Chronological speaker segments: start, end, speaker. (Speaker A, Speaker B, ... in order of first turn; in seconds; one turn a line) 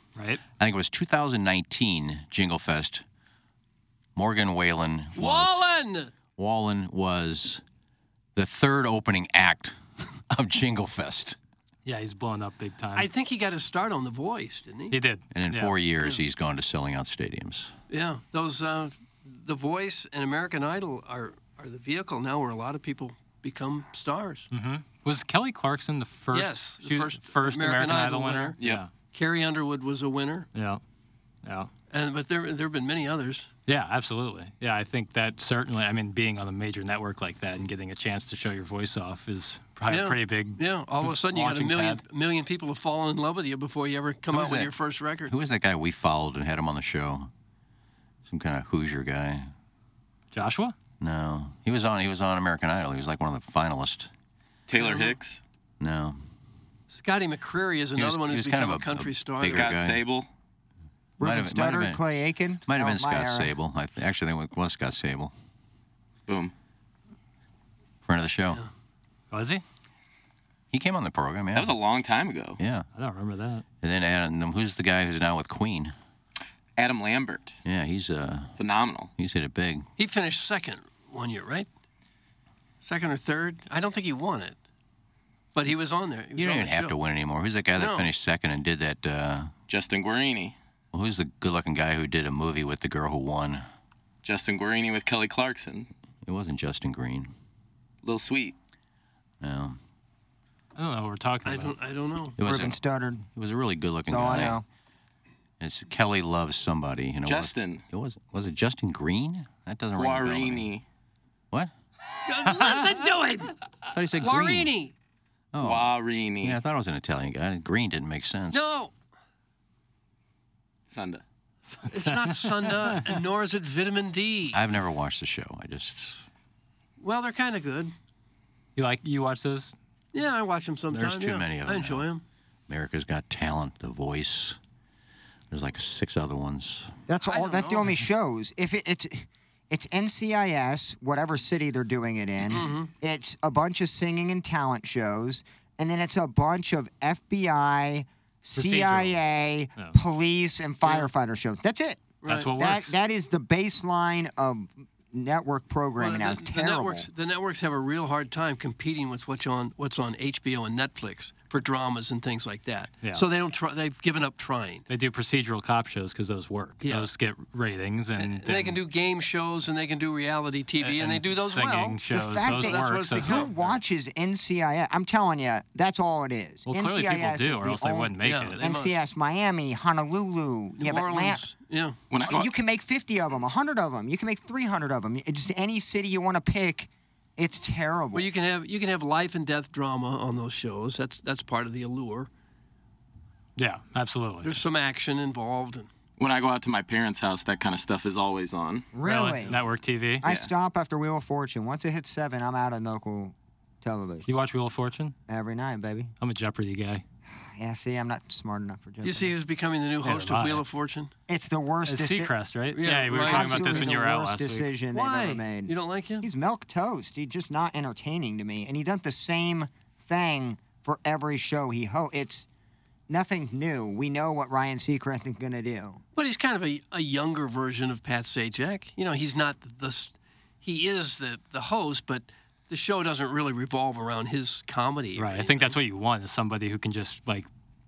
Speaker A: 0.2-0.4
Speaker B: 0.6-3.0
Speaker B: 4.2-5.7
Speaker C: 5.2-6.1
Speaker B: 6.4-7.6
Speaker B: 8.4-11.4
Speaker A: 11.8-13.1
Speaker C: 12.9-14.9
Speaker A: 14.9-15.7
Speaker B: 15.3-17.7
Speaker C: 17.9-24.5
Speaker A: 24.5-28.9
Speaker C: 26.3-28.6
Speaker D: 28.6-28.8
Speaker C: 29.1-30.5
Speaker A: 30.5-30.8
Speaker A: 31.4-31.7
Speaker C: 31.9-33.5
Speaker A: 33.7-42.0
Speaker C: 39.9-45.3
Speaker B: 44.3-44.7
Speaker B: 45.3-47.3
Speaker B: 48.3-49.5
Speaker A: 50.3-50.8
Speaker B: 51.0-54.1
Speaker D: 54.7-55.4
Speaker C: 54.7-55.2
Speaker B: 55.8-56.2
Speaker C: 56.9-59.8
Speaker B: 58.0-60.0
Speaker D: 59.4-60.3
Speaker E: 61.2-63.5
Speaker B: 61.2-62.0
Speaker B: 62.7-65.3
Speaker D: 66.3-66.5
Speaker B: 68.0-68.7
Speaker A: 69.3-69.6
Speaker B: 70.7-71.7
Speaker D: 71.5-72.6
Speaker B: 72.6-72.9
Speaker A: 73.0-73.6
Speaker B: 73.8-76.0
Speaker D: 76.8-77.6
Speaker B: 77.7-78.6
Speaker D: 78.6-79.1
Speaker B: 79.2-79.9
Speaker C: 80.0-81.7
Speaker C: 82.8-84.6
Speaker C: 85.5-87.0
Speaker B: 86.4-89.5
Speaker C: 87.8-88.1
Speaker D: 89.7-90.6
Speaker B: 90.9-93.7
Speaker D: 94.2-95.9
Speaker B: 96.2-97.3
Speaker D: 98.0-98.5
Speaker B: 99.4-99.8
Speaker A: 100.8-101.8
Speaker C: 101.5-102.4
Speaker B: 102.4-102.8
Speaker E: 102.5-103.2
Speaker B: 103.3-104.6
Speaker E: 104.1-104.7
Speaker B: 105.6-110.7
Speaker D: 107.2-107.8
Speaker D: 110.0-110.8
Speaker C: 112.2-113.6
Speaker B: 113.9-114.7
Speaker C: 114.1-114.9
Speaker B: 115.5-118.6
Speaker D: 115.6-116.6
Speaker C: 118.5-118.9
Speaker D: 120.9-121.2
Speaker A: 121.8-123.0
Speaker C: 121.9-124.6
Speaker B: 124.5-126.3
Speaker C: 127.0-127.9
Speaker A: 128.8-129.8
Speaker C: 130.1-132.2
Speaker B: 130.9-132.1
Speaker B: 132.7-134.6
Speaker B: 135.5-136.9
Speaker E: 137.1-157.1
Speaker C: 137.2-137.9
Speaker C: 142.5-142.9
Speaker A: 148.6-149.2
Speaker C: 152.2-152.5
Speaker A: 152.3-153.0
Speaker C: 156.0-164.9
Speaker A: 164.9-168.8
Speaker C: 166.8-167.1
Speaker C: 168.2-173.7
Speaker A: 170.8-173.5
Speaker E: 172.1-181.5
Speaker A: 176.7-178.6
Speaker C: 178.2-179.0
Speaker C: 180.8-182.0
Speaker D: 182.1-182.5
Speaker E: 182.2-188.3
Speaker C: 188.1-192.3
Speaker A: 193.6-194.6
Speaker C: 194.4-195.9
Speaker D: 196.2-198.9
Speaker E: 198.9-199.6
Speaker A: 199.0-200.2
Speaker D: 200.2-200.5
Speaker E: 200.2-204.3
Speaker A: 204.3-205.2
Speaker E: 205.3-206.1
Speaker A: 206.2-207.0
Speaker E: 207.3-209.3
Speaker C: 209.0-211.1
Speaker A: 210.0-210.6
Speaker E: 211.3-212.3
Speaker A: 211.9-214.7
Speaker C: 212.7-214.0
Speaker E: 213.1-222.5
Speaker C: 214.9-216.3
Speaker E: 223.1-226.0
Speaker C: 226.2-235.8
Speaker A: 235.2-237.5